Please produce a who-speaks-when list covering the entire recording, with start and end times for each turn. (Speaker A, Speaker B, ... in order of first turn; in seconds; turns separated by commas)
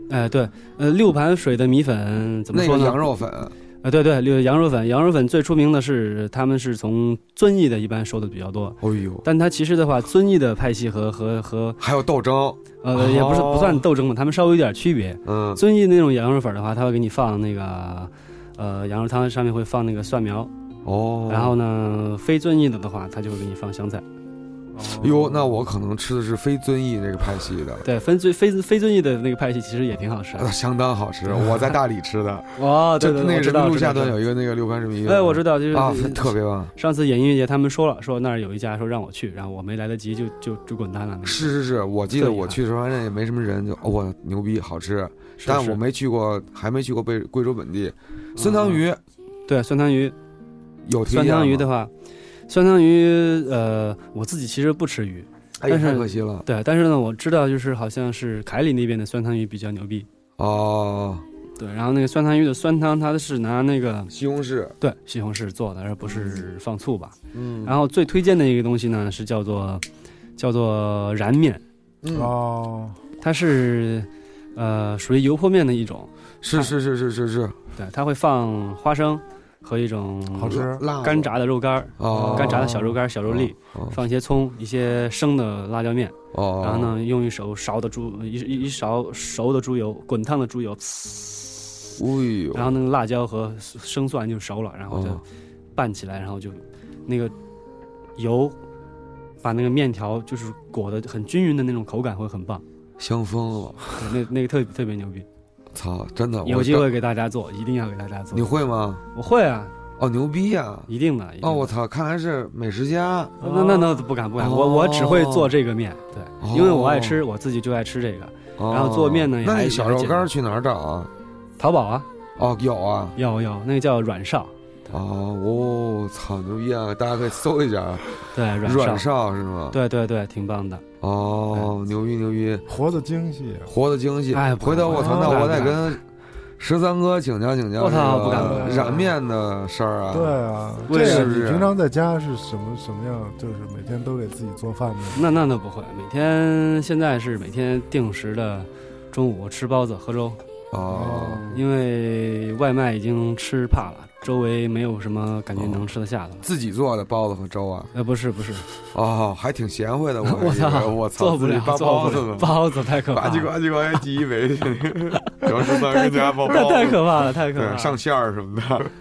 Speaker A: 0.1-3.0, Speaker B: 2.5-3.5, Speaker A: 3.8-11.8, Speaker B: 8.8-9.2, Speaker B: 11.8-13.8, Speaker A: 12.8-20.5, Speaker B: 15.2-15.6, Speaker B: 20.8-21.5, Speaker A: 21.3-24.0, Speaker A: 24.7-25.6, Speaker B: 24.9-27.8, Speaker A: 27.8-30.5, Speaker B: 30.4-36.7, Speaker A: 31.4-31.7, Speaker A: 32.5-34.2, Speaker A: 35.0-41.5, Speaker B: 41.2-49.0, Speaker A: 42.2-42.6, Speaker A: 45.4-45.8, Speaker A: 48.4-48.8, Speaker A: 49.5-50.1, Speaker B: 50.9-51.7, Speaker A: 51.0-51.9, Speaker A: 52.5-60.1, Speaker B: 55.6-56.5, Speaker B: 60.4-61.2, Speaker A: 61.6-64.1, Speaker B: 64.1-64.7, Speaker A: 64.8-69.8, Speaker B: 67.3-67.7, Speaker A: 70.4-71.6, Speaker B: 72.0-72.3, Speaker C: 72.1-73.0, Speaker A: 73.2-76.7, Speaker B: 76.4-77.6, Speaker A: 77.8-92.0, Speaker C: 80.3-80.8, Speaker B: 80.4-81.3, Speaker B: 82.0-84.0, Speaker C: 82.1-82.6, Speaker B: 86.3-86.9, Speaker B: 92.0-92.7, Speaker A: 92.5-95.2, Speaker B: 94.9-95.2, Speaker A: 95.7-97.3, Speaker A: 98.2-98.6, Speaker A: 99.4-102.6, Speaker B: 103.0-103.9, Speaker A: 103.9-105.3, Speaker B: 105.7-106.9, Speaker A: 106.4-108.5, Speaker B: 108.3-109.0, Speaker A: 109.1-109.7, Speaker B: 110.0-110.9, Speaker A: 110.9-111.7, Speaker B: 111.4-115.5, Speaker A: 113.4-120.3, Speaker B: 116.4-117.2, Speaker B: 118.6-121.1, Speaker A: 121.6-122.1, Speaker B: 122.4-123.2, Speaker A: 123.2-124.9, Speaker B: 124.9-129.8, Speaker A: 128.3-129.1, Speaker A: 129.7-130.8, Speaker B: 131.0-132.7, Speaker C: 132.7-133.7, Speaker B: 133.7-136.0, Speaker A: 134.3-135.9, Speaker B: 136.6-141.7, Speaker A: 137.8-139.1, Speaker C: 138.3-139.0, Speaker C: 140.1-145.3, Speaker A: 140.9-141.3, Speaker A: 145.1-150.4, Speaker B: 150.7-151.5, Speaker C: 150.9-151.6, Speaker A: 151.4-156.4, Speaker B: 155.6-155.8, Speaker B: 156.4-157.9, Speaker A: 157.9-158.7, Speaker B: 158.9-168.9, Speaker A: 160.2-163.5, Speaker A: 165.3-168.0